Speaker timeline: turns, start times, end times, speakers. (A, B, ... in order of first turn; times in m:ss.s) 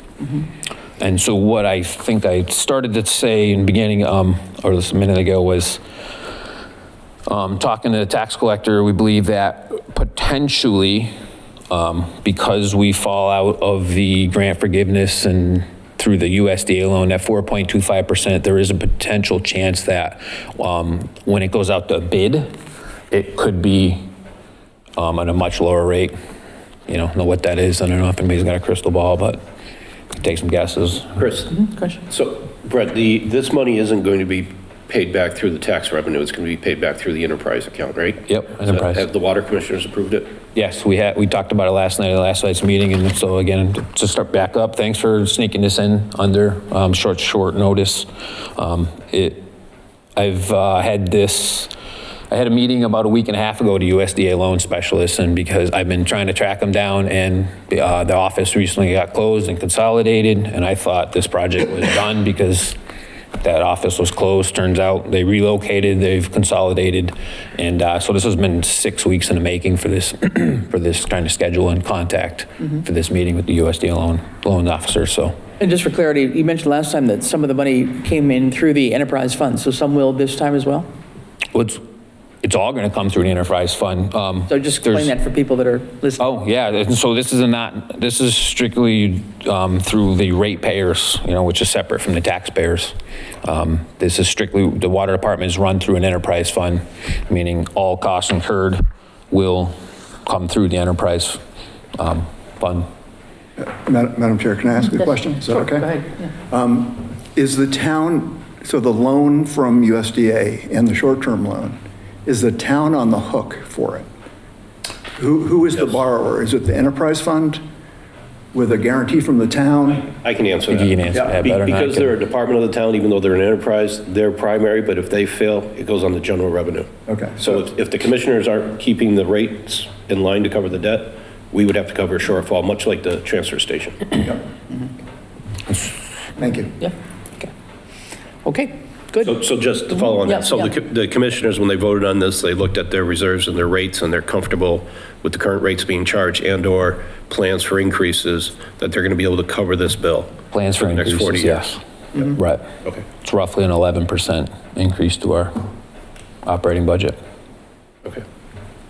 0:01.0-0:05.8 A
0:07.3-0:11.1 A
0:11.7-0:22.5 A
0:23.1-0:24.0 A
0:25.0-0:26.1 A
0:26.9-0:29.4 A
0:30.1-0:31.2 A
0:31.2-0:31.5 B
0:31.5-0:32.0 C
0:32.1-0:40.3 B
0:38.3-0:39.0 A
0:40.5-0:49.5 A
0:50.2-0:51.7 A
0:52.3-1:02.8 A
1:03.4-1:15.4 A
1:15.6-1:20.9 C
1:21.5-1:21.8 A
1:22.4-1:25.1 A
1:24.5-1:26.2 C
1:26.2-1:41.4 A
1:42.0-1:42.9 A
1:43.6-1:54.1 D
1:45.5-1:46.3 C
1:55.2-1:57.6 D
1:58.5-2:00.1 D
2:00.2-2:06.9 B
2:00.7-2:02.1 A
2:07.1-2:07.6 D
2:07.4-2:14.2 B
2:16.4-2:16.8 D
2:16.8-2:17.5 C
2:18.4-2:19.4 C
2:19.2-2:32.2 B
2:20.1-2:20.7 C
2:30.5-2:32.7 A
2:33.2-2:35.6 A
2:36.4-2:37.2 A